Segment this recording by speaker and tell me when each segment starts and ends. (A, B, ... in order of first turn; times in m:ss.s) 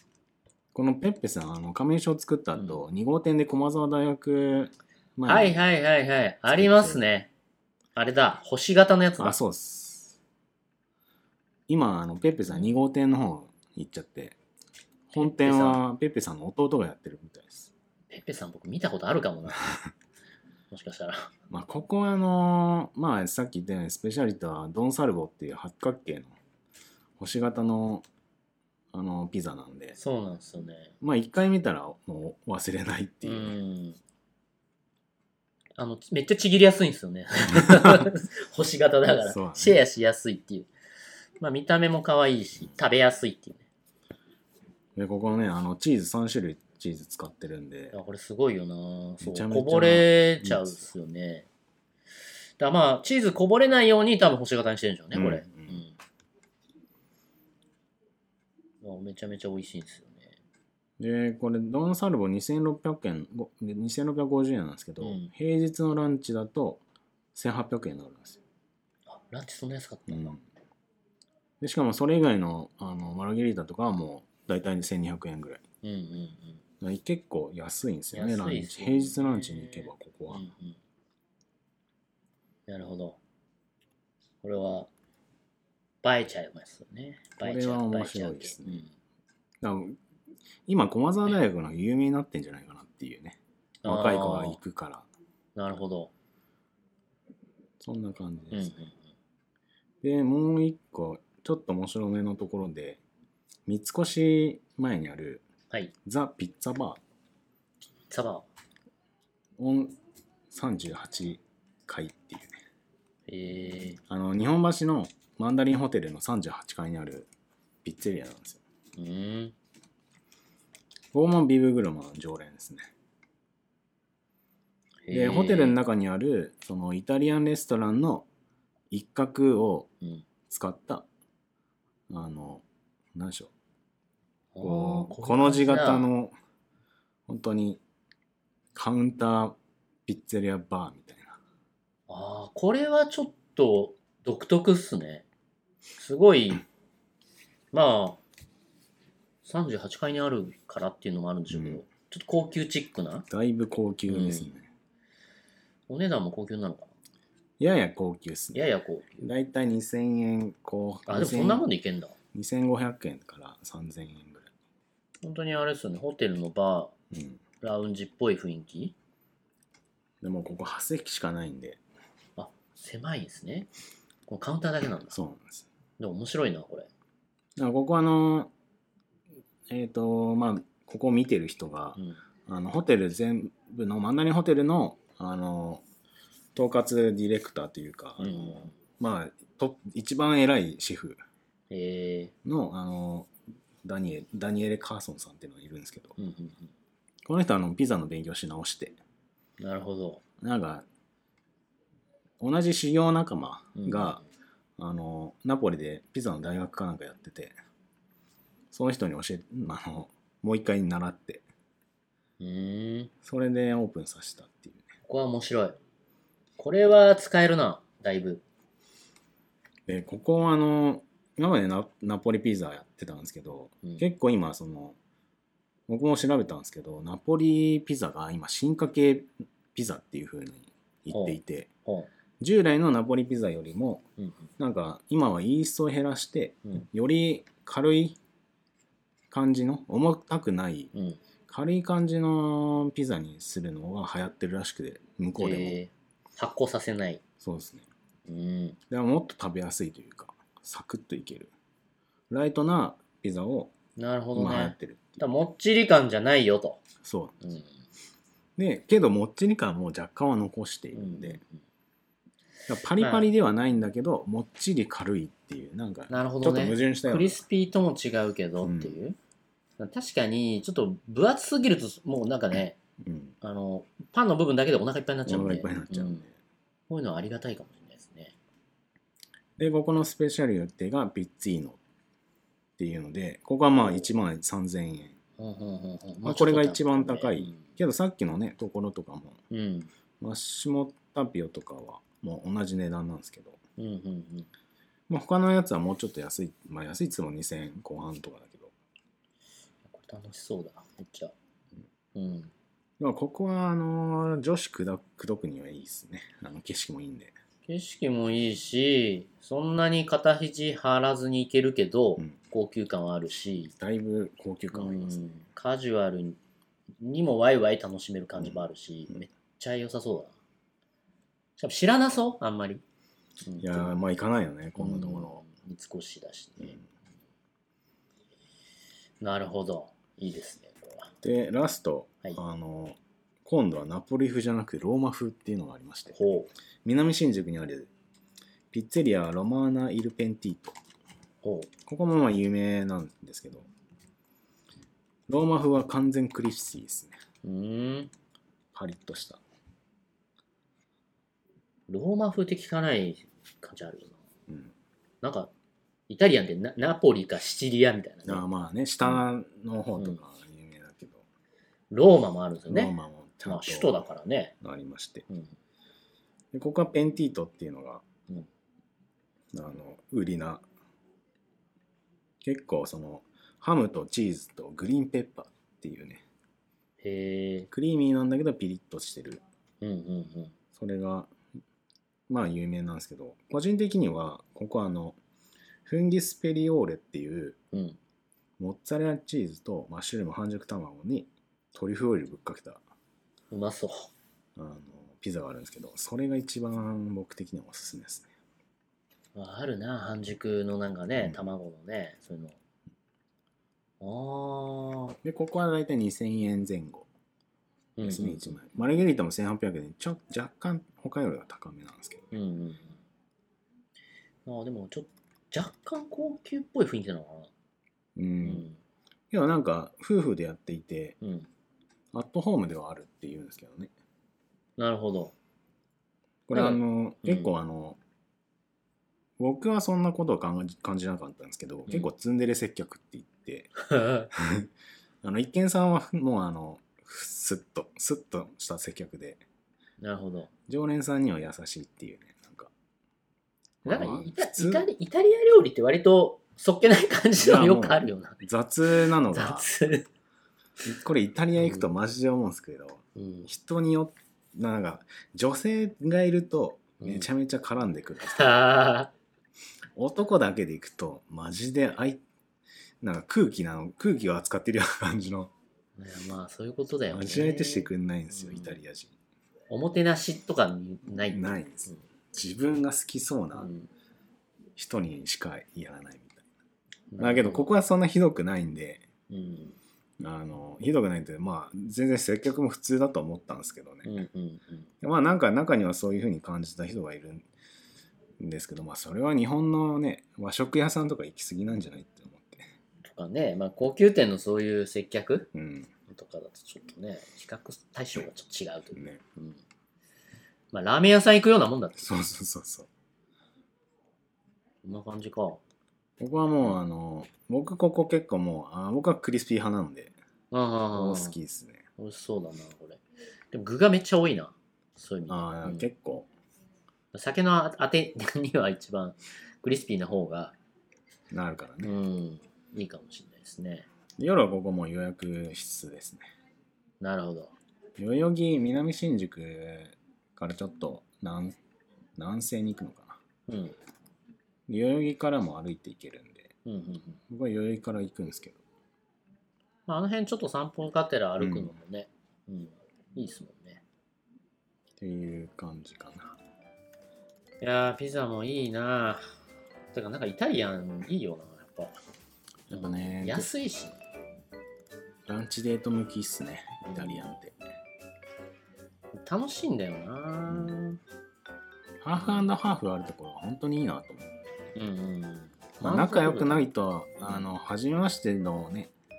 0:00.7-0:05.6 A
0:05.3-0:07.3 B
0:06.5-0:07.1 A
0:08.0-0:09.4 B
0:09.2-0:10.2 A
0:11.7-0:14.4 A
0:15.1-0:17.7 A
0:15.2-0:15.8 B
0:18.1-0:19.7 B
0:20.7-0:21.3 B
0:21.5-0:26.4 A
0:27.2-0:28.0 A
0:28.9-0:30.0 A
0:30.0-0:30.9 B
0:31.0-0:33.6 A
0:33.2-0:34.0 B
0:35.8-0:40.7 B
0:37.6-0:38.1 A
0:39.2-0:39.8 A
0:41.4-0:43.6 B
0:45.0-0:48.0 A
0:47.9-0:51.5 B
0:49.2-0:50.8 A
0:52.6-0:56.0 B
0:55.1-0:55.8 A
0:58.8-1:00.4 B
1:01.0-1:06.8 A
1:05.0-1:05.3 B
1:07.3-1:08.4 A
1:09.1-1:10.4 B
1:10.1-1:10.4 A
1:11.6-1:15.6 A
1:15.8-1:16.6 B
1:16.8-1:20.5 A
1:18.1-1:20.8 B
1:22.7-1:23.2 B
1:24.4-1:24.9 B
1:26.0-1:28.9 B
1:27.4-1:28.8 A
1:29.6-1:30.0 A
1:30.7-1:35.1 A
1:33.8-1:34.6 B
1:35.6-1:36.1 B
1:37.8-1:38.7 A
1:38.5-1:39.0 B
1:40.0-1:43.0 A
1:43.7-1:45.4 A
1:46.0-1:47.0 A
1:48.1-1:48.5 B
1:49.6-1:50.0 A
1:50.5-1:52.6 A
1:53.3-1:54.0 B
1:54.1-1:57.3 A
1:57.8-1:58.6 A
1:59.0-1:59.6 B
2:01.1-2:02.9 A
2:05.0-2:05.8 B
2:05.1-2:08.3 A
2:08.9-2:09.9 A
2:10.0-2:10.3 B
2:10.5-2:11.1 A
2:12.1-2:13.5 A
2:14.5-2:16.1 B
2:14.6-2:16.4 A
2:17.3-2:17.8 A
2:18.7-2:21.4 A
2:22.1-2:25.2 B
2:26.0-2:26.6 B
2:27.7-2:28.2 B
2:29.4-2:33.3 B
2:31.5-2:31.8 A
2:33.3-2:34.7 A
2:34.1-2:34.5 B
2:35.9-2:36.9 B
2:37.6-2:41.6 A
2:38.5-2:39.3 B
2:41.1-2:42.2 B
2:42.3-2:44.5 A
2:45.2-2:46.9 B
2:47.1-2:47.4 A
2:47.6-2:49.0 B
2:50.2-2:51.8 A
2:52.4-2:53.7 B
2:54.3-2:55.2 B
2:55.1-2:55.7 A
2:56.0-2:56.9 B
2:57.6-2:58.5 A
2:59.7-3:05.8 A
3:06.6-3:11.2 A
3:08.2-3:08.8 B
3:11.7-3:12.3 B
3:12.4-3:13.3 A
3:13.8-3:16.2 A
3:16.2-3:16.7 B
3:17.2-3:19.0 A
3:19.6-3:20.2 B
3:20.4-3:20.8 A
3:22.4-3:24.2 A
3:23.8-3:24.2 B
3:24.8-3:27.6 A
3:28.7-3:31.4 A
3:32.4-3:33.1 B
3:33.2-3:34.8 A
3:35.1-3:35.8 B
3:36.6-3:38.4 B
3:39.9-3:45.0 A
3:45.9-3:51.7 A
3:51.1-3:52.1 B
3:52.4-3:54.0 A
3:54.2-3:54.5 B
3:54.6-3:58.2 A
3:59.3-4:00.9 A
4:00.9-4:01.2 B
4:01.5-4:05.8 A
4:05.4-4:07.2 B
4:07.4-4:07.9 A
4:08.3-4:08.8 B
4:08.9-4:11.5 A
4:12.3-4:13.7 A
4:14.0-4:16.8 B
4:14.4-4:15.2 A
4:17.0-4:17.4 A
4:17.4-4:17.7 B
4:18.6-4:21.4 A
4:20.9-4:21.6 B
4:22.7-4:27.4 A
4:23.0-4:23.3 B
4:26.1-4:29.2 B
4:28.6-4:29.0 A
4:29.8-4:32.8 B
4:33.0-4:33.4 A
4:33.4-4:36.3 B
4:35.3-4:36.3 A
4:36.9-4:38.4 B
4:39.6-4:41.8 A
4:42.8-4:45.2 A
4:45.4-4:47.7 B
4:46.2-4:49.4 A
4:49.5-4:49.9 B
4:50.2-4:53.6 A
4:53.8-4:54.5 B
4:55.1-4:58.7 A
4:59.9-5:01.3 B
5:02.1-5:02.5 B
5:03.0-5:07.4 A
5:07.7-5:13.7 B
5:13.8-5:15.4 A
5:14.7-5:16.4 B
5:17.0-5:20.4 B
5:18.4-5:19.2 A
5:21.6-5:22.8 B
5:23.4-5:23.9 B
5:23.6-5:25.4 A
5:24.8-5:26.8 B
5:29.2-5:31.1 B
5:31.2-5:37.9 A
5:36.1-5:36.5 B
5:38.7-5:40.8 A
5:41.4-5:41.7 B
5:41.8-5:43.7 A
5:45.3-5:47.2 A
5:47.4-5:48.1 B
5:48.7-5:49.4 A
5:51.9-5:54.2 B
5:54.5-5:54.7 A
5:55.2-5:55.5 B
5:56.1-5:58.4 B
5:58.2-6:01.2 A
6:01.9-6:02.9 B
6:02.7-6:04.0 A
6:03.4-6:04.5 B
6:04.6-6:05.3 A
6:05.3-6:05.5 B
6:06.5-6:08.0 A
6:09.5-6:10.7 A
6:12.4-6:16.2 A
6:17.0-6:17.7 B
6:17.7-6:19.4 A
6:19.8-6:20.6 B
6:20.7-6:21.3 A
6:22.3-6:25.2 A
6:25.9-6:27.6 A
6:27.7-6:28.0 B
6:28.6-6:32.8 A
6:33.5-6:34.1 B
6:34.6-6:38.3 A
6:39.4-6:42.6 B
6:41.2-6:41.5 A
6:44.0-6:45.2 B
6:45.2-6:47.1 A
6:48.0-6:48.6 B
6:48.0-6:52.3 A
6:52.3-6:53.0 B
6:54.5-6:57.5 B
6:58.2-6:58.7 A
6:58.4-6:58.8 B
6:59.3-7:01.2 A
7:01.2-7:01.5 B
7:02.1-7:03.9 A
7:04.8-7:05.3 B
7:06.5-7:08.0 A
7:06.5-7:07.5 B
7:09.4-7:13.7 A
7:13.8-7:14.3 B
7:14.3-7:14.7 A
7:15.2-7:19.4 A
7:20.0-7:20.5 B
7:20.7-7:22.7 A
7:23.8-7:24.9 A
7:23.9-7:28.4 B
7:27.4-7:29.7 A
7:29.3-7:30.1 B
7:30.8-7:38.6 A
7:33.2-7:33.5 B
7:37.0-7:37.3 B
7:38.3-7:39.1 B
7:40.0-7:42.2 A
7:43.0-7:45.5 A
7:46.0-7:48.8 B
7:47.1-7:49.2 A
7:49.7-7:52.0 B
7:51.1-7:53.7 A
7:53.6-7:53.9 B
7:54.8-7:56.4 A
7:57.1-7:57.7 B
7:57.2-7:59.0 A
7:59.3-7:59.8 B
8:00.2-8:04.2 A
8:04.0-8:04.9 B
8:05.0-8:07.5 A
8:08.4-8:12.7 A
8:13.0-8:15.5 B
8:15.5-8:15.9 A
8:16.1-8:19.6 B
8:20.7-8:22.1 B
8:22.0-8:22.9 A
8:24.8-8:25.6 B
8:26.2-8:30.2 A
8:30.5-8:31.4 B
8:30.9-8:31.9 A
8:32.0-8:35.9 B
8:35.3-8:36.3 A
8:37.1-8:40.6 B
8:41.3-8:41.9 A
8:41.8-8:43.9 B
8:44.2-8:46.3 A
8:47.0-8:47.5 B
8:48.0-8:51.6 A
8:52.2-8:53.2 A
8:53.5-8:53.8 B
8:54.7-8:56.5 A
8:56.6-8:57.2 B
8:57.3-8:58.6 A
8:59.9-9:03.8 B
9:01.4-9:01.7 A
9:05.0-9:06.4 A
9:07.6-9:09.3 B
9:09.9-9:12.0 B
9:12.7-9:13.5 A
9:12.7-9:14.0 B
9:15.3-9:17.6 A
9:16.8-9:17.3 B
9:19.1-9:21.0 B
9:22.0-9:24.3 A
9:22.2-9:22.4 B
9:24.8-9:26.7 B
9:25.8-9:28.9 A